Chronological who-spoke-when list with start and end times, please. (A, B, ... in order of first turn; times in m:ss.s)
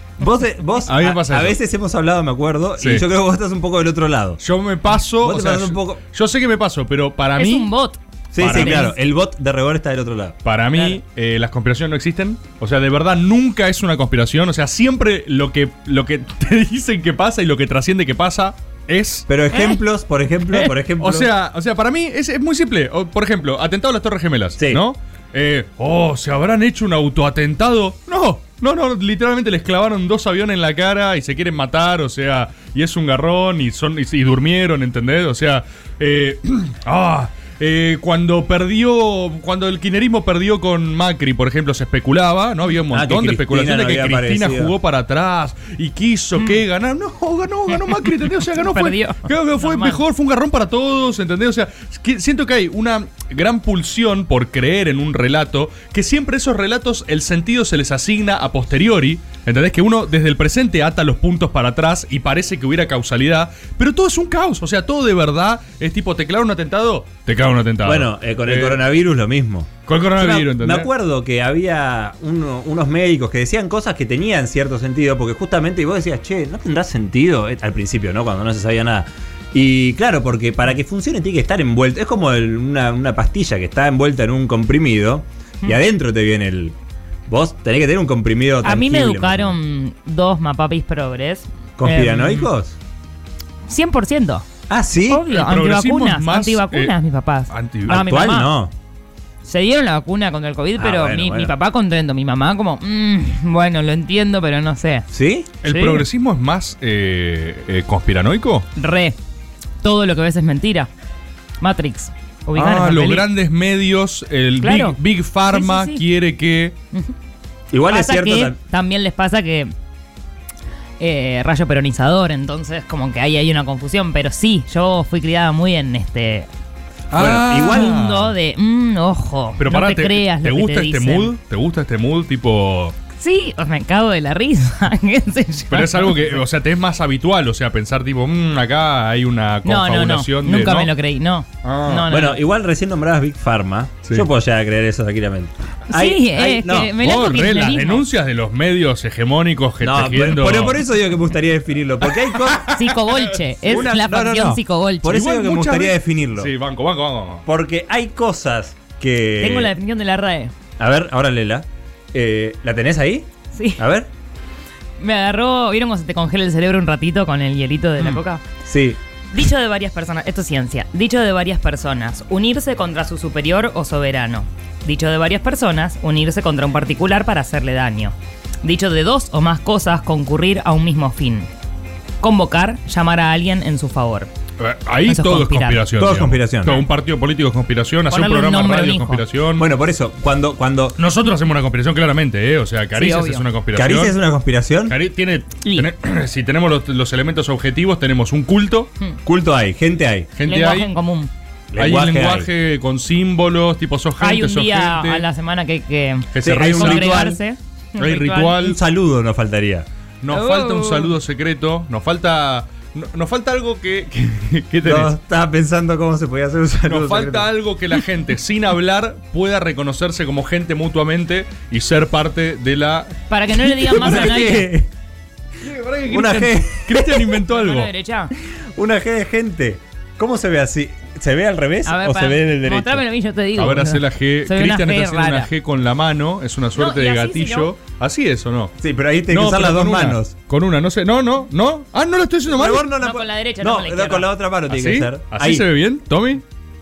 0:00.2-0:04.4 A
0:00.8-0:01.6 B
0:02.8-0:03.0 B
0:04.4-0:07.7 B
0:05.2-0:06.0 A
0:07.4-0:09.0 C
0:08.3-0:10.4 A
0:08.4-0:08.9 B
0:10.4-0:19.3 B
0:19.3-0:21.3 A
0:19.5-0:19.8 C
0:21.0-1:08.8 B
0:42.9-0:44.7 A
0:48.6-0:50.0 C
1:07.8-1:26.7 A
1:09.9-1:10.9 B
1:27.3-1:29.6 A
1:28.6-1:32.5 C
1:31.8-1:32.8 A
1:33.7-1:34.4 C
1:34.7-1:35.2 A
1:35.1-1:38.5 C
1:35.3-1:36.9 B
1:37.5-1:38.0 B
1:37.9-1:38.7 A
1:39.4-1:45.1 C
1:40.8-1:41.5 A
1:45.1-1:45.5 A
1:45.6-1:48.7 B
1:45.6-1:46.0 C
1:48.8-1:49.2 C
1:49.8-1:50.9 C
1:51.6-1:53.2 C
1:52.6-1:56.7 B
1:54.6-1:55.0 C
1:55.5-1:56.0 C
1:57.7-1:58.6 A
1:57.9-1:59.7 C
2:01.0-2:06.5 C
2:07.1-2:08.3 B
2:07.1-2:08.0 A
2:07.6-2:11.3 C
2:09.6-2:12.9 B
2:13.2-2:16.4 C
2:15.7-2:20.9 B
2:19.6-2:22.4 C
2:21.6-2:22.1 B
2:22.1-2:26.9 A
2:25.9-2:28.0 C
2:27.0-2:30.8 B
2:29.8-2:32.7 A
2:32.1-2:33.9 B
2:32.7-2:35.2 C
2:33.7-2:36.5 A
2:35.1-2:37.4 B
2:37.4-2:39.7 A
2:39.4-2:40.5 C
2:40.8-2:44.1 A
2:43.5-2:43.8 C
2:45.0-2:48.4 C
2:48.6-2:49.0 A
2:49.3-3:01.5 C
3:02.2-3:04.3 C
3:04.6-3:09.7 B
3:05.0-3:05.8 C
3:06.0-3:06.8 A
3:08.1-3:09.2 C
3:09.6-3:11.0 A
3:11.0-3:14.2 B
3:12.9-3:13.4 C
3:13.7-3:15.0 A
3:14.9-3:18.9 B
3:19.2-3:20.3 A
3:20.3-3:20.9 B
3:20.4-3:21.3 C
3:21.7-3:22.5 A
3:21.8-3:25.2 B
3:24.2-3:28.7 C
3:26.3-3:27.3 B
3:26.4-3:27.4 A
3:28.0-3:28.8 B
3:28.6-3:29.8 A
3:30.2-3:35.1 B
3:30.3-3:31.1 C
3:34.8-3:37.5 A
3:36.8-3:43.1 B
3:43.3-3:44.7 C
3:43.7-3:44.9 A
3:45.6-3:47.9 B
3:46.1-3:47.3 A
3:47.5-3:48.3 C
3:48.8-3:53.0 A
3:51.8-3:55.5 C
3:53.6-3:58.8 B
3:56.7-3:57.7 C
3:58.8-4:00.3 A
3:59.3-4:02.9 B
4:02.5-4:05.6 A
4:02.9-4:04.3 C
4:04.7-4:06.4 B